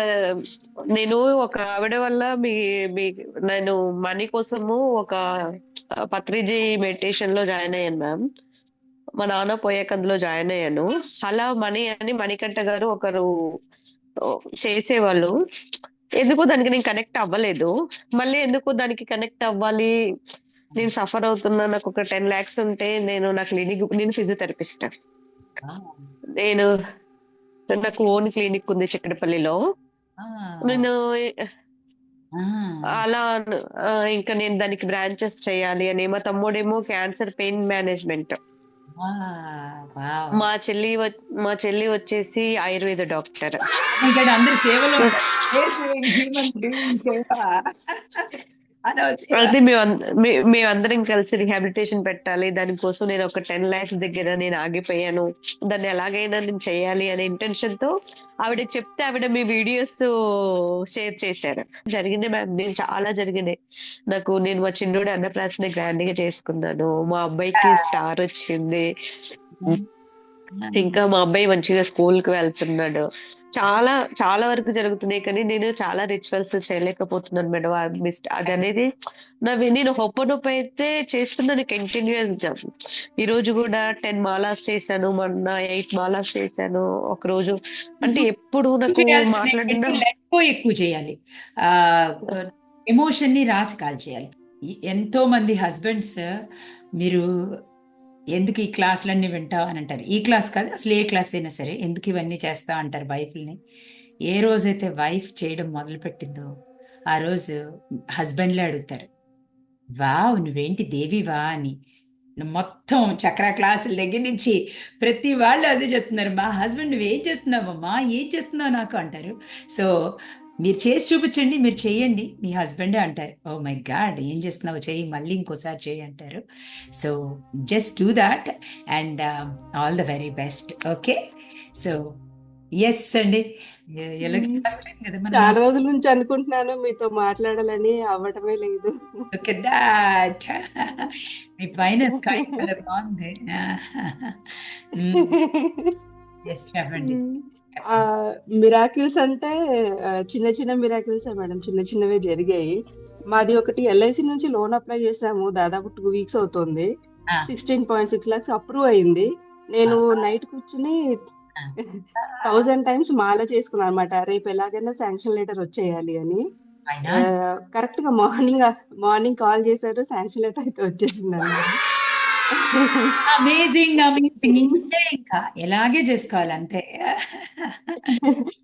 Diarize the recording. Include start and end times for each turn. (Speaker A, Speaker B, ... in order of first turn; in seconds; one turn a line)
Speaker A: 0.9-5.2
Speaker A: 6.1-8.2
Speaker A: 9.2-13.3
Speaker A: 14.6-15.3
Speaker A: 16.2-17.7
Speaker A: 18.2-19.9
Speaker A: 20.7-24.9
Speaker B: 25.6-26.0
Speaker A: 26.4-26.7
Speaker A: 27.7-29.5
Speaker B: 30.2-30.8
Speaker A: 30.6-31.0
Speaker B: 32.4-33.0
Speaker A: 33.0-33.5
Speaker A: 34.1-38.4
Speaker B: 39.0-40.3
Speaker A: 40.4-43.6
Speaker B: 44.0-47.5
Speaker B: 48.9-49.5
Speaker A: 49.4-57.9
Speaker A: 58.4-60.1
Speaker A: 60.9-63.6
Speaker A: 64.1-68.8
Speaker B: 69.6-69.8
Speaker B: 70.5-70.9
Speaker A: 70.8-73.0
Speaker A: 73.5-78.9
Speaker A: 79.4-82.6
Speaker A: 83.2-90.0
Speaker B: 88.9-94.3
Speaker B: 94.9-96.2
Speaker B: 98.3-103.6
Speaker B: 104.3-106.5
Speaker B: 107.1-107.5
Speaker B: 108.2-109.1
Speaker B: 110.0-111.7
Speaker B: 112.4-119.9
Speaker B: 120.6-126.4
Speaker B: 127.7-131.2
Speaker B: 132.8-133.4
Speaker B: 134.0-135.5
Speaker C: 134.3-134.6
Speaker C: 135.3-138.9
Speaker B: 139.3-140.6
Speaker B: 141.6-145.3
Speaker C: 142.2-142.5
Speaker C: 145.2-145.9
Speaker B: 146.5-147.2
Speaker C: 147.0-147.4
Speaker B: 147.7-148.0
Speaker C: 147.9-149.5
Speaker C: 150.3-152.8
Speaker C: 153.3-156.9
Speaker C: 157.5-160.9
Speaker C: 161.9-166.4
Speaker B: 166.9-167.2
Speaker C: 167.1-171.8
Speaker C: 172.6-173.1
Speaker B: 173.3-176.8
Speaker B: 177.7-178.1